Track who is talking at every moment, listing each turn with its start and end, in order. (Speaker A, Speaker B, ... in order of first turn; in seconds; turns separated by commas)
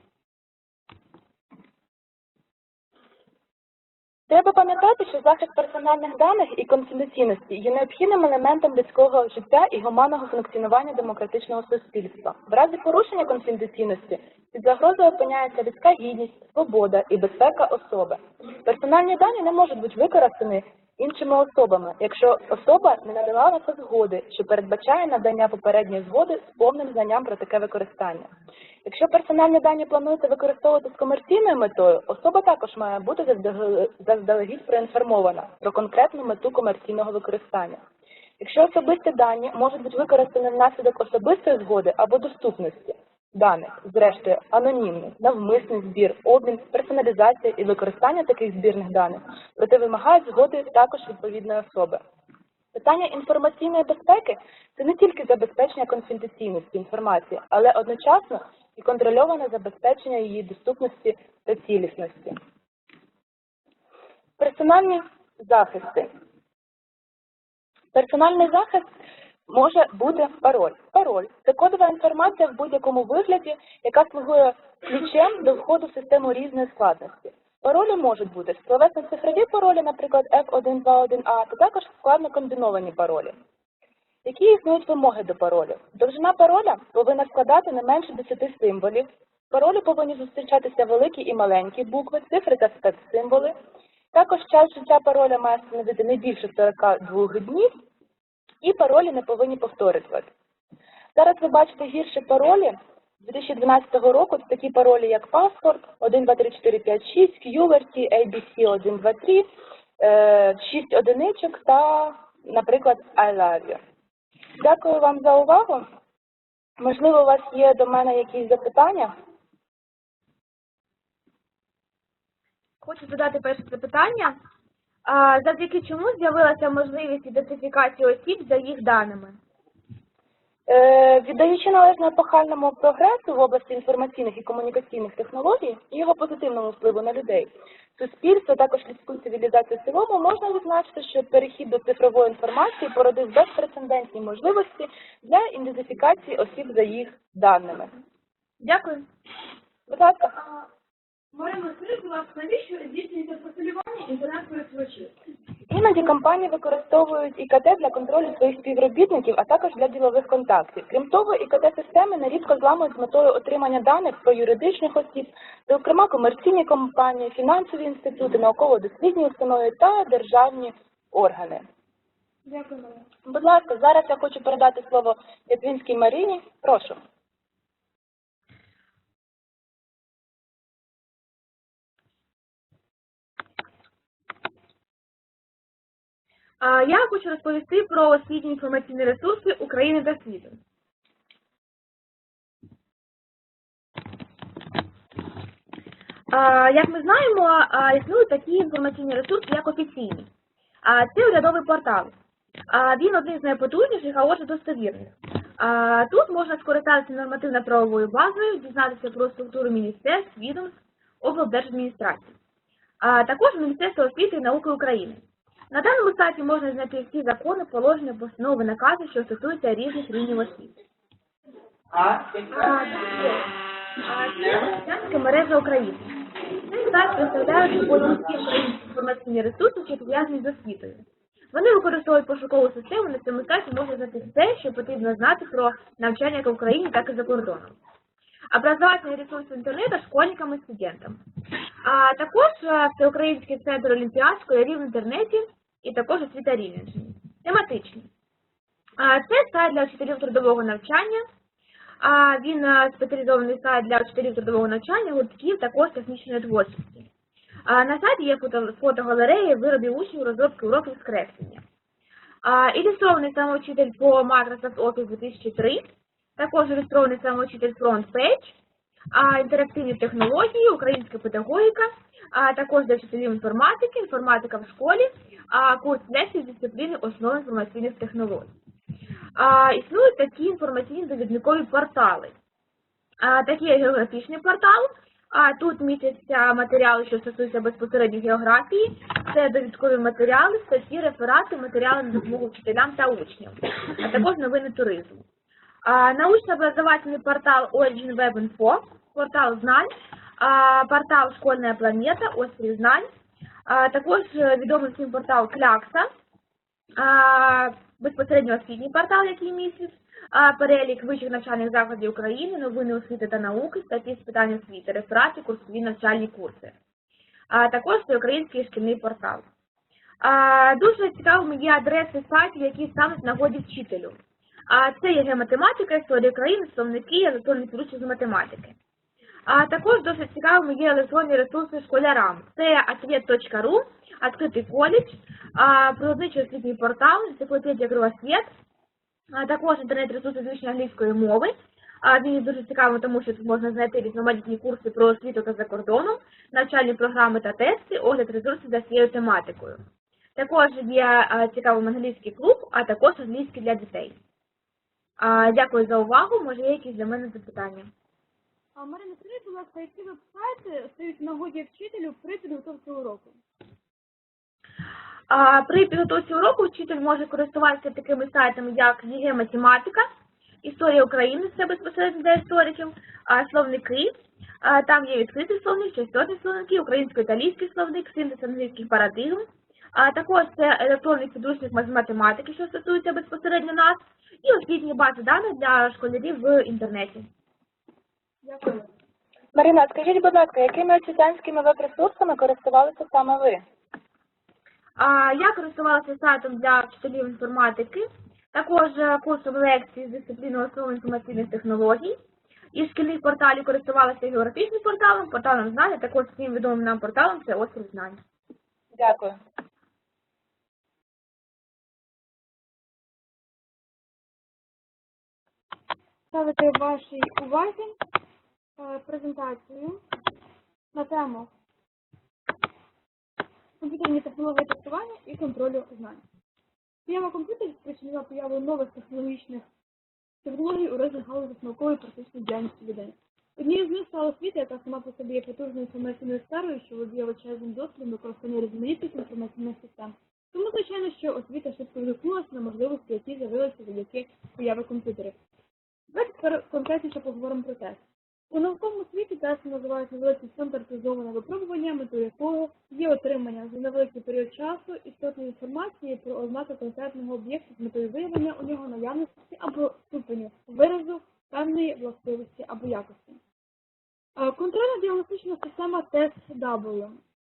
Speaker A: 4.3-28.3, Speaker A: 28.9-37.8, Speaker A: 38.4-52.0, Speaker A: 52.7-62.4, Speaker A: 64.4-66.1, Speaker A: 67.9-68.9, Speaker A: 69.5-83.3, Speaker A: 84.2-93.5, Speaker A: 94.1-97.7, Speaker A: 98.6-100.3, Speaker A: 101.2-109.5, Speaker A: 110.0-113.8, Speaker A: 114.6-115.8, Speaker A: 116.8-119.1, Speaker B: 122.8-124.4, Speaker B: 125.1-129.4, Speaker A: 130.7-147.9, Speaker B: 148.6-149.1, Speaker A: 149.9-150.3, Speaker C: 150.3-150.7, Speaker C: 151.3-155.1, Speaker A: 155.7-171.6, Speaker C: 172.5-173.1, Speaker A: 173.3-177.0, Speaker B: 186.6-190.6, Speaker B: 196.3-200.3, Speaker B: 200.8-202.2, Speaker B: 202.7-212.4, Speaker B: 213.0-220.7, Speaker B: 222.0-237.8, Speaker B: 238.5-241.2, Speaker B: 241.8-248.1, Speaker B: 249.0-251.2, Speaker B: 252.0-257.1, Speaker B: 257.7-261.6, Speaker B: 262.4-268.6, Speaker B: 269.1-278.5, Speaker B: 279.4-282.3, Speaker B: 283.2-295.2, Speaker B: 295.9-303.1, Speaker B: 303.7-306.1, Speaker B: 307.0-316.8, Speaker B: 317.5-319.5, Speaker B: 320.2-324.2, Speaker B: 324.7-328.8, Speaker B: 329.5-338.5, Speaker B: 339.3-349.8, Speaker B: 350.4-354.2, Speaker B: 355.2-357.9, Speaker C: 358.8-363.4, Speaker B: 365.3-370.1, Speaker B: 370.6-387.3, Speaker C: 388.4-388.9, Speaker A: 389.6-393.6, Speaker B: 395.0-402.1, Speaker B: 402.7-408.2, Speaker A: 408.9-409.4, Speaker C: 416.3-418.0, Speaker C: 418.8-420.0, Speaker C: 420.9-421.5, Speaker C: 423.8-426.2, Speaker C: 427.1-429.7, Speaker C: 430.4-445.4, Speaker C: 446.1-463.4, Speaker C: 464.4-467.2